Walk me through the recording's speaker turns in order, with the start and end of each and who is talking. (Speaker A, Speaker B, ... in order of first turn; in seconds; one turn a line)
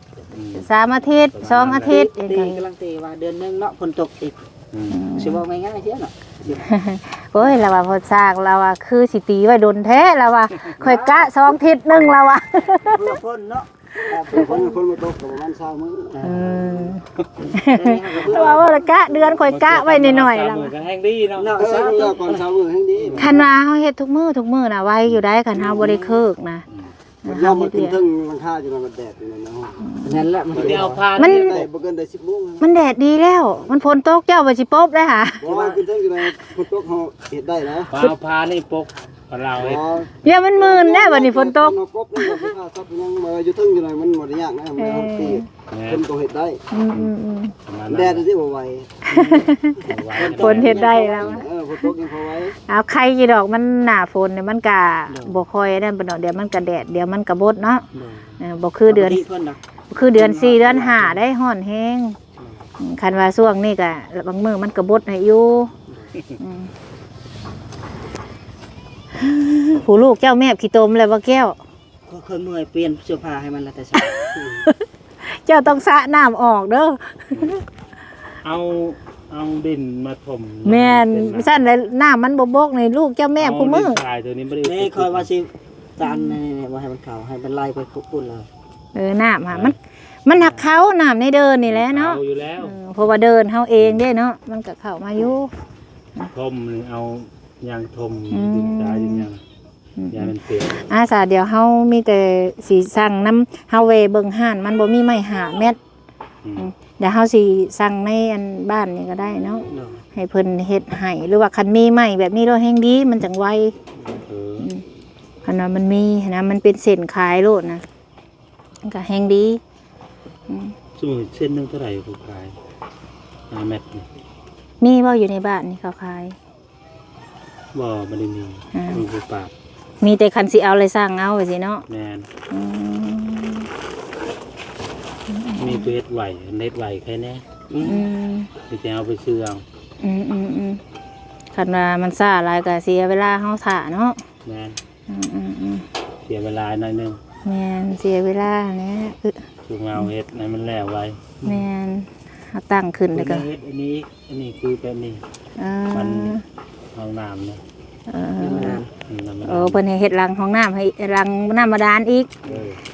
Speaker A: 0.3-0.7
Speaker B: 0.6-2.6
Speaker A: 1.2-2.0
Speaker C: 1.8-4.4
Speaker A: 4.7-5.0
Speaker B: 4.9-5.4
Speaker C: 5.1-6.6
Speaker B: 6.6-13.2
Speaker C: 10.8-11.5
Speaker C: 12.8-14.8
Speaker D: 14.2-16.2
Speaker C: 16.1-16.5
Speaker B: 16.2-20.7
Speaker A: 16.3-17.3
Speaker C: 17.6-18.6
Speaker D: 18.4-19.2
Speaker A: 19.4-21.5
Speaker C: 21.4-22.4
Speaker D: 21.6-23.5
Speaker A: 23.0-23.3
Speaker B: 23.2-26.6
Speaker D: 25.5-26.2
Speaker B: 27.2-28.0
Speaker D: 27.2-29.8
Speaker B: 29.8-30.3
Speaker C: 30.0-31.1
Speaker A: 30.5-31.6
Speaker D: 30.5-32.7
Speaker B: 31.2-31.6
Speaker B: 32.6-35.5
Speaker D: 35.4-37.9
Speaker C: 35.4-35.8
Speaker A: 37.9-39.8
Speaker D: 39.6-46.6
Speaker B: 40.2-42.5
Speaker B: 44.8-45.5
Speaker A: 45.7-46.0
Speaker B: 46.7-47.5
Speaker A: 47.6-48.3
Speaker D: 47.9-49.4
Speaker B: 49.0-51.5
Speaker A: 49.8-50.9
Speaker C: 50.1-51.4
Speaker D: 51.2-52.5
Speaker B: 52.7-57.9
Speaker C: 55.1-55.4
Speaker C: 57.9-61.2
Speaker B: 58.4-59.2
Speaker B: 59.9-62.2
Speaker C: 62.4-62.6
Speaker B: 62.8-65.7
Speaker B: 66.4-66.7
Speaker B: 69.2-71.6
Speaker C: 72.0-74.6
Speaker B: 74.0-77.6
Speaker A: 78.4-81.7
Speaker B: 80.6-84.0
Speaker A: 83.4-85.3
Speaker C: 84.6-88.5
Speaker B: 86.0-86.4
Speaker B: 88.9-95.5
Speaker A: 89.5-89.8
Speaker C: 90.3-90.7
Speaker A: 91.7-92.8
Speaker A: 96.3-99.4
Speaker B: 98.3-99.3
Speaker B: 100.0-105.8
Speaker A: 100.1-100.8
Speaker A: 106.4-106.7
Speaker B: 106.6-113.7
Speaker C: 109.7-110.0
Speaker A: 114.1-114.7
Speaker B: 114.6-114.8
Speaker B: 115.4-117.8
Speaker B: 118.8-119.6
Speaker B: 120.5-120.7
Speaker A: 121.0-122.5
Speaker A: 123.5-124.1
Speaker B: 124.8-126.4
Speaker A: 127.7-129.5
Speaker B: 128.7-129.0
Speaker B: 130.0-131.8
Speaker A: 131.9-132.3
Speaker B: 132.5-133.7
Speaker B: 135.3-135.9
Speaker A: 135.6-137.4
Speaker C: 137.7-138.1
Speaker B: 137.8-138.5
Speaker A: 138.7-139.6
Speaker B: 140.0-140.8
Speaker B: 141.5-144.2
Speaker A: 144.4-144.8
Speaker B: 145.1-145.8
Speaker A: 146.2-147.2
Speaker B: 147.4-149.4
Speaker A: 149.6-151.5
Speaker B: 151.4-153.4
Speaker A: 153.1-155.2
Speaker B: 155.6-156.4
Speaker A: 155.9-156.4
Speaker A: 156.9-157.6
Speaker B: 158.1-158.8
Speaker C: 158.4-158.9
Speaker A: 158.5-159.8
Speaker B: 159.4-162.3
Speaker A: 162.4-162.8